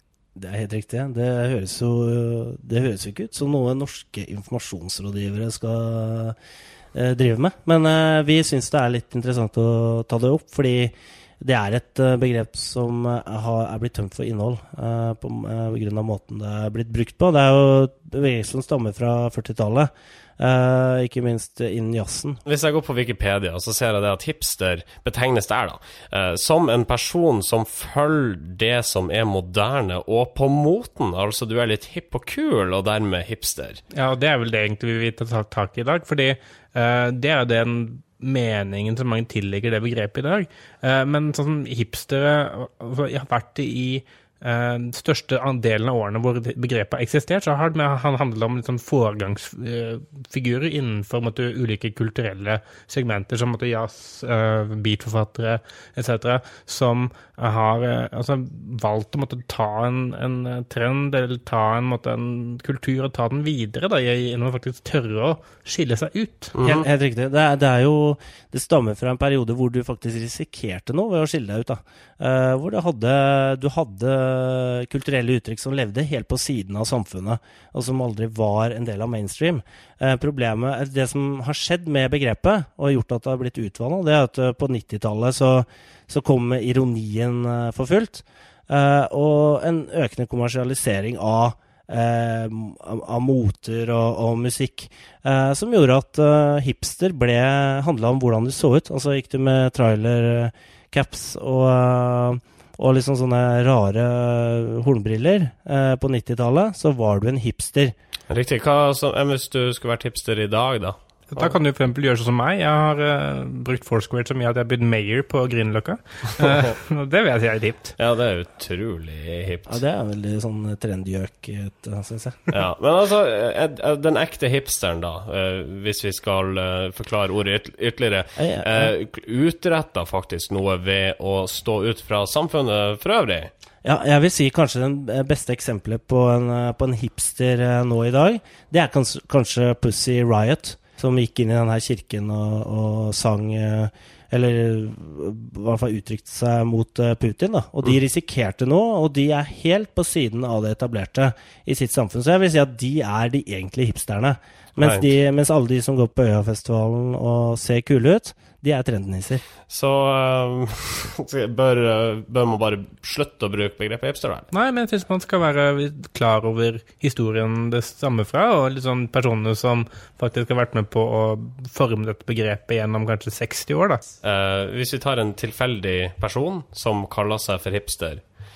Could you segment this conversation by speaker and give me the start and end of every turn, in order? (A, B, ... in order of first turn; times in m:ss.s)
0:00.4-0:06.4 A
0:06.9-0:22.4 A
0:22.5-0:33.8 B
0:33.9-1:06.6 C
1:06.6-1:06.8 B
1:06.6-1:47.9 A
1:48.3-1:51.5 B
1:51.3-1:58.0 C
1:58.0-1:59.8 B
1:59.7-2:02.4 A
2:02.5-2:13.5 B
2:08.4-2:08.9 A
2:13.8-2:39.4 A
2:34.8-2:35.1 B
2:39.7-2:44.5 B
2:44.5-2:54.0 C
2:54.2-2:58.2 B